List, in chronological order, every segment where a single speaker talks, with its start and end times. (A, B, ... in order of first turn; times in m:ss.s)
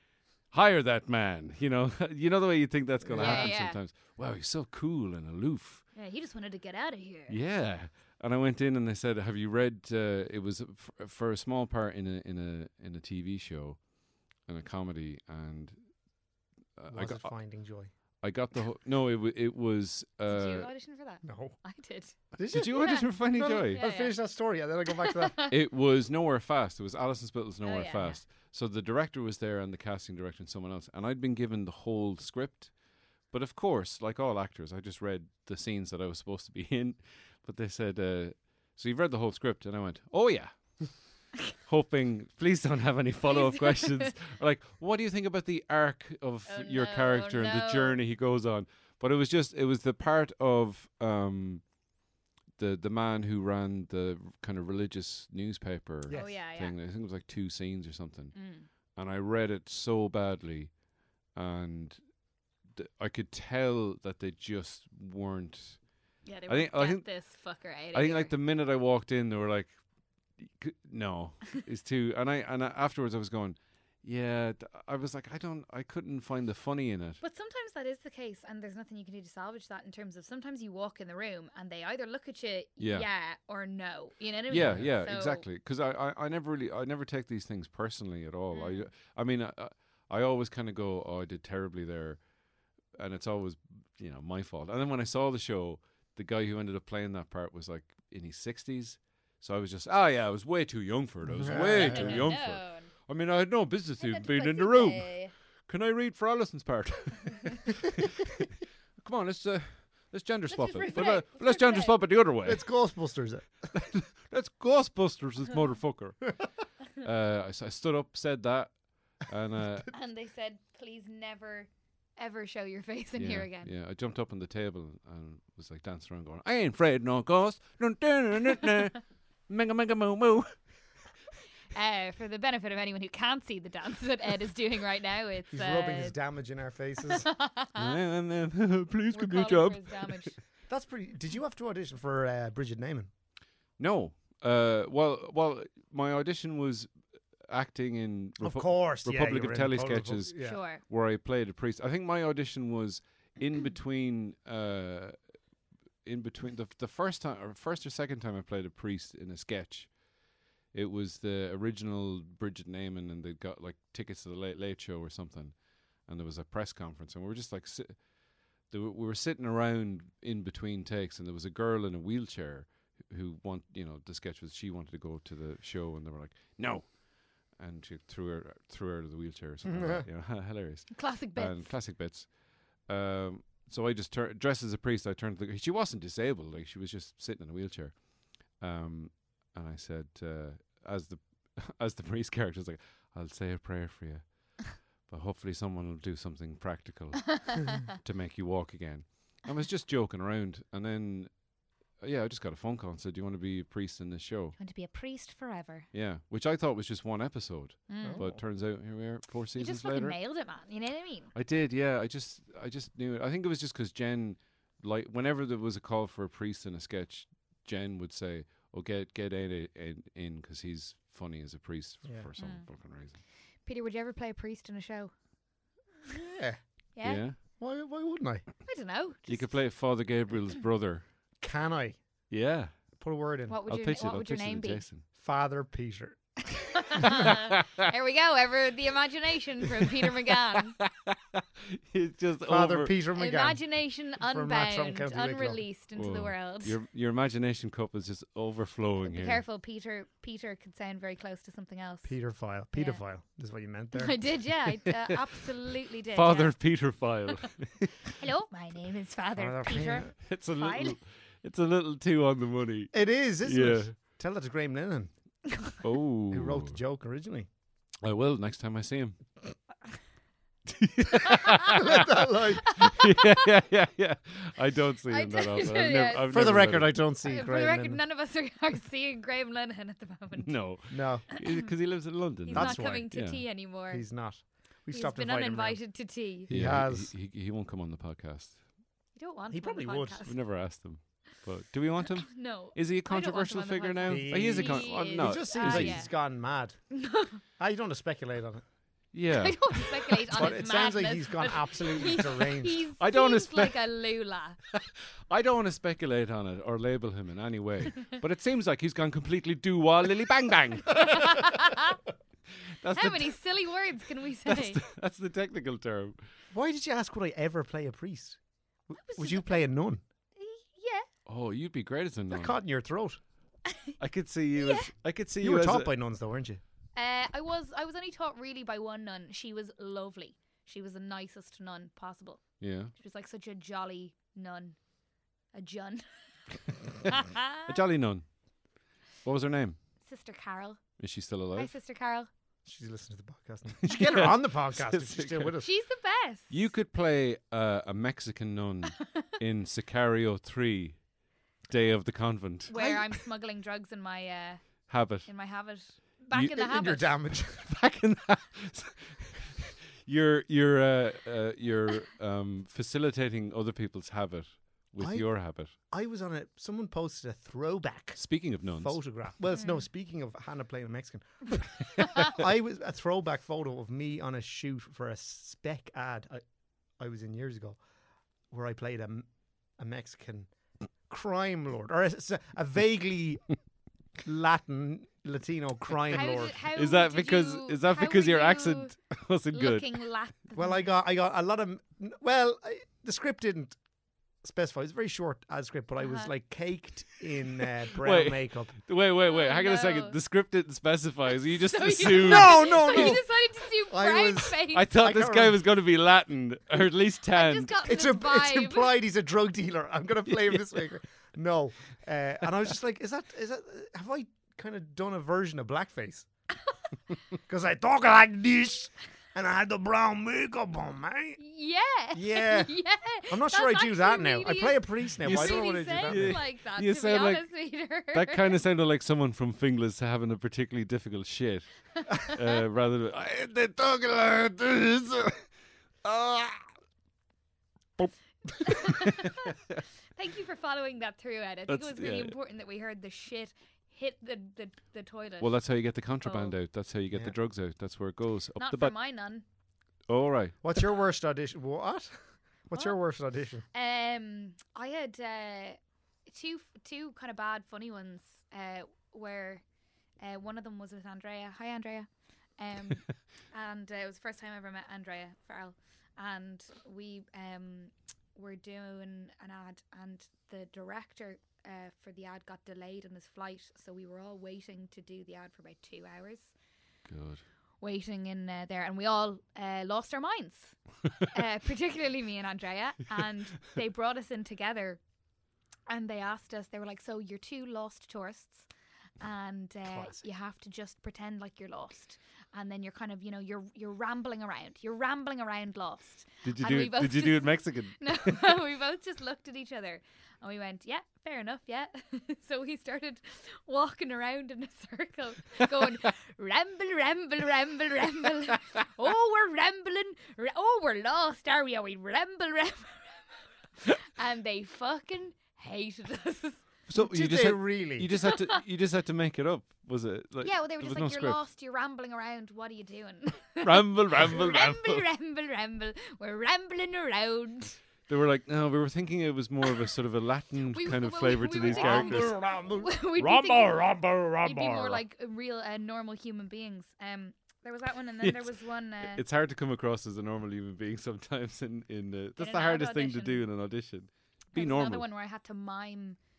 0:00.5-0:05.8 A
0:03.0-0:03.5 B
0:03.2-0:03.8 C
0:06.0-0:07.4 C
0:07.3-0:13.9 A
0:14.4-0:15.8 A
0:16.8-0:17.3 A
0:16.9-0:17.9 B
0:18.2-0:20.7 A
0:20.3-0:22.2 C
0:21.2-0:21.6 B
0:22.3-0:25.4 B
0:22.5-0:23.8 A
0:22.8-0:24.2 C
0:25.0-0:25.6 C
0:25.5-0:32.7 A
0:27.6-0:28.2 C
0:33.3-0:51.6 A
0:43.3-0:44.1 C
0:46.5-0:48.0 C
0:52.6-0:58.4 A
0:56.1-0:56.4 B
0:56.1-0:56.8 C
0:58.4-0:58.7 C
0:59.0-1:00.8 A
1:01.3-1:02.0 A
1:02.7-1:05.9 A
1:06.2-1:08.3 C
1:06.5-1:07.1 A
1:07.9-1:09.8 A
1:10.4-1:17.2 A
1:17.2-1:25.5 C
1:22.8-1:23.1 A
1:24.5-1:32.3 A
1:24.6-1:24.9 B
1:28.5-1:28.9 C
1:32.9-1:48.1 A
1:41.3-1:42.3 B
1:41.5-1:42.9 C
1:44.0-1:45.3 C
1:49.0-1:52.7 A
1:50.5-1:52.0 C
1:52.4-1:53.5 B
1:53.7-1:56.4 A
1:57.0-1:59.9 A
1:59.9-2:03.7 C
2:03.2-2:10.5 A
2:11.7-2:16.2 C
2:15.5-2:17.3 B
2:17.1-2:18.0 C
2:17.8-2:20.3 A
2:19.1-2:20.4 C
2:20.7-2:23.1 B
2:23.8-2:35.2 A
2:28.4-2:30.6 B
2:30.4-2:30.8 C
2:36.0-2:40.0 A
2:40.7-2:48.1 A
2:48.6-3:21.4 A
2:59.6-3:00.1 B
3:00.9-3:01.8 C
3:22.0-3:24.6 A
3:24.6-3:25.9 C
3:25.9-3:30.2 A
3:27.9-3:28.2 C
3:28.0-3:28.4 B
3:29.6-3:31.3 C
3:31.4-3:43.2 A
3:42.4-3:42.7 C
3:43.7-3:45.1 C
3:46.3-3:46.6 B
3:47.0-3:47.2 C
3:47.0-3:47.4 A
3:47.6-3:48.4 B
3:48.7-3:49.5 C
3:49.3-3:51.1 A
3:51.4-3:52.0 B
3:52.3-3:53.0 A
3:53.0-3:53.6 B
3:53.5-3:54.8 C
3:53.7-3:55.0 A
3:55.2-3:56.2 B
3:56.7-4:00.8 C
3:57.2-3:57.8 A
4:00.6-4:03.0 A
4:02.5-4:03.6 B
4:03.2-4:06.8 C
4:04.2-4:05.6 B
4:06.0-4:09.4 A
4:09.0-4:12.1 C
4:12.0-4:14.2 B
4:12.7-4:13.0 C
4:13.9-4:16.9 C
4:16.1-4:18.1 A
4:18.2-4:21.0 C
4:19.4-4:20.1 B
4:20.2-4:23.9 A
4:22.9-4:25.1 B
4:25.8-4:26.8 A
4:26.3-4:27.5 B
4:28.0-4:29.2 A
4:30.7-4:37.0 A
4:31.7-4:32.7 B
4:32.8-4:33.1 C
4:35.1-4:36.6 C
4:36.3-4:38.0 B
4:37.2-4:40.9 C
4:40.4-4:43.4 A
4:40.9-4:41.3 B
4:42.5-4:44.1 C
4:42.5-4:43.1 B
4:43.9-4:45.8 B
4:44.9-4:46.5 C
4:46.4-4:47.1 B
4:46.5-4:48.6 A
4:49.2-4:50.4 C
4:49.5-4:50.2 B
4:50.2-4:56.0 A
4:52.1-4:56.1 C
4:54.1-4:57.0 B
4:56.9-4:57.4 C
4:57.6-4:58.6 B
4:59.1-4:59.6 A
4:59.3-5:04.6 C
5:00.3-5:02.8 B
5:03.0-5:03.8 A
5:04.7-5:11.6 A
5:11.0-5:12.0 C
5:12.8-5:13.4 A
5:12.9-5:14.8 C
5:14.5-5:16.2 A
5:16.5-5:18.4 B
5:18.9-5:20.0 B
5:19.0-5:19.6 C
5:20.4-5:21.1 C
5:21.3-5:22.6 A
5:22.3-5:23.2 B
5:23.7-5:23.9 C
5:24.0-5:25.9 A
5:24.6-5:24.9 C
5:25.4-5:26.6 B
5:27.0-5:34.8 C
5:32.6-5:32.9 A
5:35.5-5:36.1 C
5:37.0-5:37.8 C
5:37.7-5:38.3 A
5:39.2-5:39.8 A
5:40.0-5:40.8 C
5:41.0-5:41.7 A
5:41.5-5:42.3 C
5:42.6-5:45.7 B
5:43.8-5:45.5 A
5:45.6-5:46.6 C
5:46.5-5:51.0 A
5:51.7-5:53.1 A
5:52.7-5:57.1 C
5:54.9-5:55.3 A
5:56.4-5:57.7 B
5:57.4-6:05.7 A
6:05.0-6:16.4 B
6:08.2-6:09.0 A
6:09.5-6:09.8 C
6:17.0-6:17.8 B
6:18.5-6:20.5 B
6:21.0-6:23.6 B
6:24.2-6:26.6 B
6:26.1-6:29.0 C
6:26.7-6:29.9 A
6:29.5-6:30.9 C
6:30.6-6:33.8 B
6:34.4-6:38.8 B
6:36.0-6:36.3 C
6:38.0-6:43.2 A
6:39.2-6:40.2 C
6:41.6-6:44.9 C
6:42.1-6:45.6 B
6:44.7-6:47.8 A
6:47.3-6:49.0 C
6:47.9-6:56.3 B
6:57.5-7:01.4 B
7:01.4-7:08.6 C
7:02.1-7:02.7 B
7:03.3-7:06.4 B
7:05.2-7:07.4 A
7:08.1-7:15.4 A
7:16.0-7:16.7 A
7:18.6-7:19.6 C
7:20.2-7:26.5 C
7:21.7-7:22.4 A
7:25.4-7:28.9 A
7:28.6-7:29.4 C
7:30.1-7:30.6 A
7:30.6-7:33.6 B
7:33.7-7:39.6 C
7:40.2-7:56.5 C
7:57.1-7:57.4 A
7:57.8-8:05.0 C
8:05.9-8:08.7 C
8:09.2-8:36.6 C
8:09.8-8:10.2 B
8:16.4-8:18.4 A
8:36.9-8:41.4 A
8:37.0-8:38.1 B
8:38.2-8:38.6 C
8:40.4-8:47.8 C
8:43.6-8:45.1 A
8:48.1-8:52.3 A
8:50.7-8:59.2 C
8:51.6-8:55.0 B
8:58.2-9:05.0 A
9:02.4-9:03.4 C
9:04.5-9:06.2 C